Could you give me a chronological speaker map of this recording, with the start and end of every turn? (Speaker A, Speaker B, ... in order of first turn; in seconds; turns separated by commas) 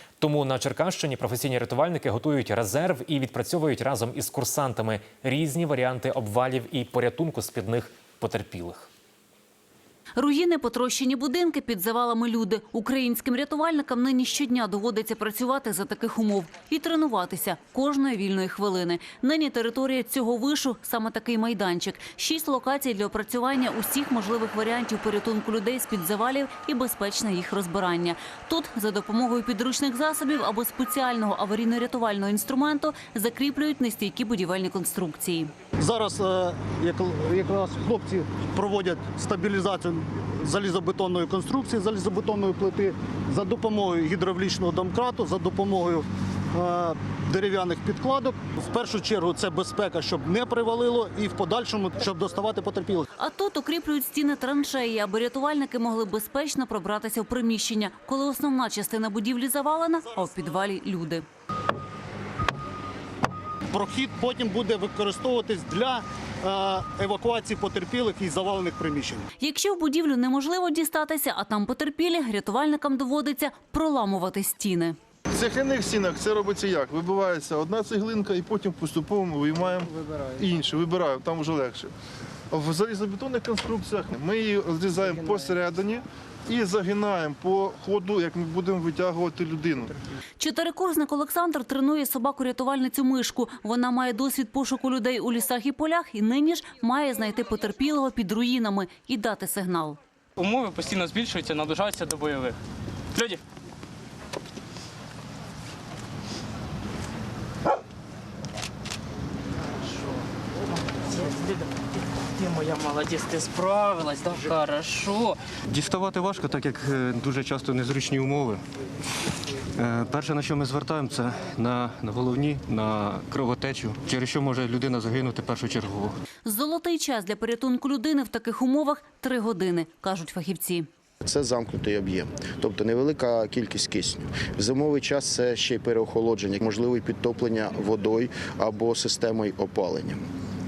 Speaker A: 0.2-8.9, Speaker B: 10.2-35.5, Speaker C: 35.8-53.1, Speaker B: 53.2-61.2, Speaker C: 63.7-69.3, Speaker B: 69.4-75.0, Speaker D: 75.3-81.9, Speaker D: 82.5-89.9, Speaker B: 90.4-100.0, Speaker E: 100.4-102.6, Speaker E: 103.1-103.4, Speaker E: 111.1-111.7, Speaker E: 112.3-115.4, Speaker F: 115.7-118.6, Speaker F: 119.8-126.2, Speaker B: 126.4-130.9, Speaker G: 131.2-140.2